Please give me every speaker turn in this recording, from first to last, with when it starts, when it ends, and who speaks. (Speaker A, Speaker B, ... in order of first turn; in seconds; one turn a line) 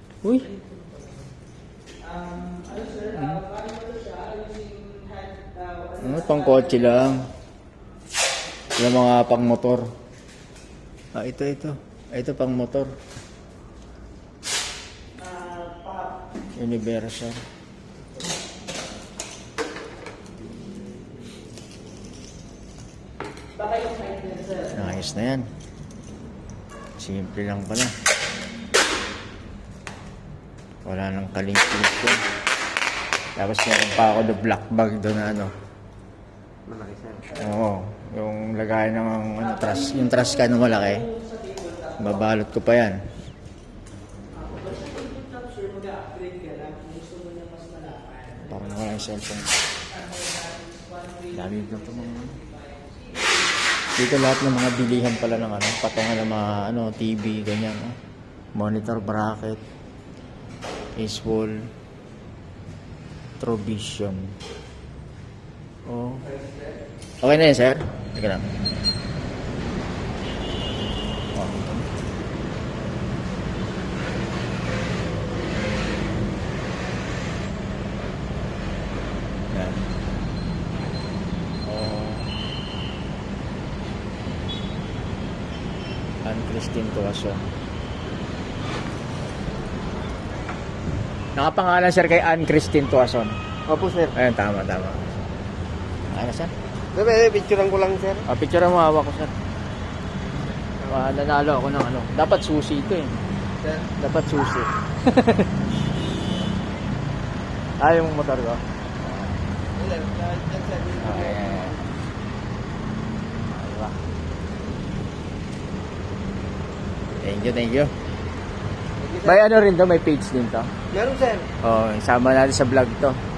Speaker A: 0.2-0.5
Speaker B: 0.3-1.3
Speaker B: 2.0-7.2
Speaker A: 3.1-3.4
Speaker A: 6.0-7.2
Speaker A: 8.8-9.9
Speaker A: 11.1-12.9
Speaker B: 15.2-16.2
Speaker A: 16.6-17.4
Speaker B: 23.5-25.0
Speaker A: 24.7-25.4
Speaker A: 27.0-27.9
Speaker A: 30.8-32.2
Speaker A: 33.4-35.5
Speaker C: 36.7-37.2
Speaker A: 37.3-41.1
Speaker B: 39.4-42.3
Speaker A: 42.0-43.0
Speaker B: 44.3-53.7
Speaker A: 48.5-49.5
Speaker A: 51.3-52.4
Speaker A: 54.0-58.0
Speaker A: 58.5-59.6
Speaker A: 61.0-61.5
Speaker A: 63.4-64.3
Speaker A: 65.9-66.3
Speaker A: 67.2-68.5
Speaker A: 71.3-71.8
Speaker A: 79.5-79.9
Speaker A: 81.6-82.3
Speaker A: 86.2-87.4
Speaker A: 91.3-93.3
Speaker C: 93.7-94.1
Speaker A: 94.1-95.0
Speaker A: 96.1-96.5
Speaker C: 96.9-98.2
Speaker A: 98.3-99.3
Speaker A: 100.8-103.1
Speaker A: 104.0-105.5
Speaker A: 107.8-109.4
Speaker C: 109.8-111.7
Speaker A: 111.0-111.8
Speaker A: 113.5-114.0
Speaker A: 117.2-117.9
Speaker C: 119.0-119.4
Speaker A: 119.2-120.7
Speaker C: 120.9-121.5
Speaker A: 121.6-123.2